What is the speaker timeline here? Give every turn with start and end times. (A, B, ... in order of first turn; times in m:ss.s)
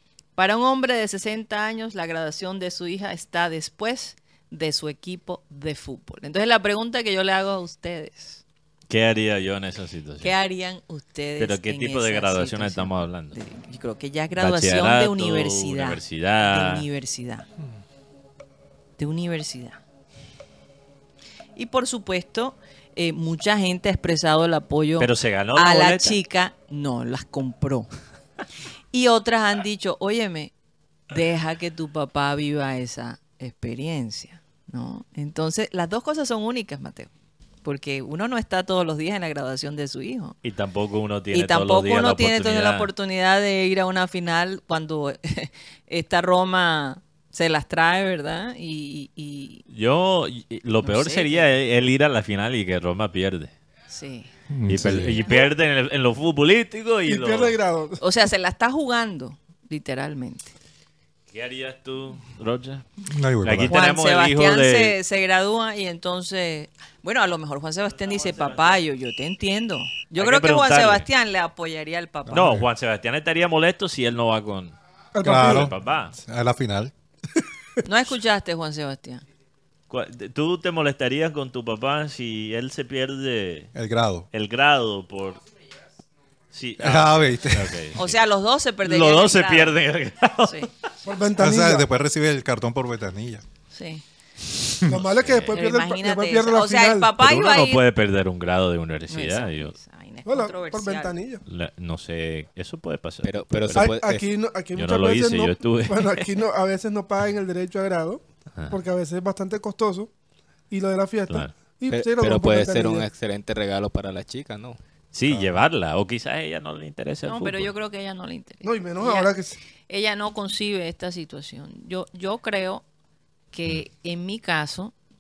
0:00.4-0:08.4 A
0:08.9-0:10.3 B
0:10.2-0:17.5 A
0:11.4-0:13.4 B
0:14.4-0:16.9 B
0:19.0-0:19.8 A
0:21.6-0:27.9 A
0:25.0-0:26.2 B
0:28.9-0:30.5 A
0:31.1-0:37.1 A
0:37.6-0:40.4 A
0:40.4-0:42.9 B
0:41.3-0:49.6 A
0:49.7-0:53.5 B
0:50.8-0:51.5 A
0:53.9-0:54.3 A
0:54.5-0:55.2 C
0:54.7-0:57.6 B
0:54.9-0:55.3 A
0:57.1-0:58.0 D
0:58.0-1:00.5 A
1:01.3-1:02.9 B
1:03.0-1:03.8 C
1:03.4-1:05.0 B
1:03.7-1:12.4 A
1:07.9-1:08.8 B
1:10.2-1:11.1 B
1:12.3-1:12.7 C
1:12.3-1:14.8 B
1:15.2-1:15.7 D
1:15.2-1:16.9 C
1:15.3-1:16.1 B
1:17.8-1:19.2 A
1:19.9-1:23.7 B
1:23.8-1:24.3 C
1:24.3-1:25.4 B
1:26.5-1:28.2 B
1:26.8-1:27.9 C
1:28.0-1:29.8 A
1:28.8-1:30.7 B
1:30.4-1:30.7 A
1:31.0-1:31.9 D
1:31.4-1:33.4 C
1:33.7-1:34.0 A
1:34.9-1:37.1 D
1:34.9-1:35.6 B
1:35.5-1:37.8 A
1:37.2-1:39.7 B
1:39.1-1:41.1 A
1:40.3-1:41.4 D
1:41.5-1:44.1 B
1:43.2-1:44.2 E
1:43.8-1:50.1 D
1:44.7-1:46.3 B
1:50.7-1:53.1 D
1:51.9-1:54.8 E
1:55.1-1:57.7 B
1:57.2-1:59.3 A
1:58.6-1:59.6 D
1:59.9-2:02.8 A
2:03.5-2:04.9 A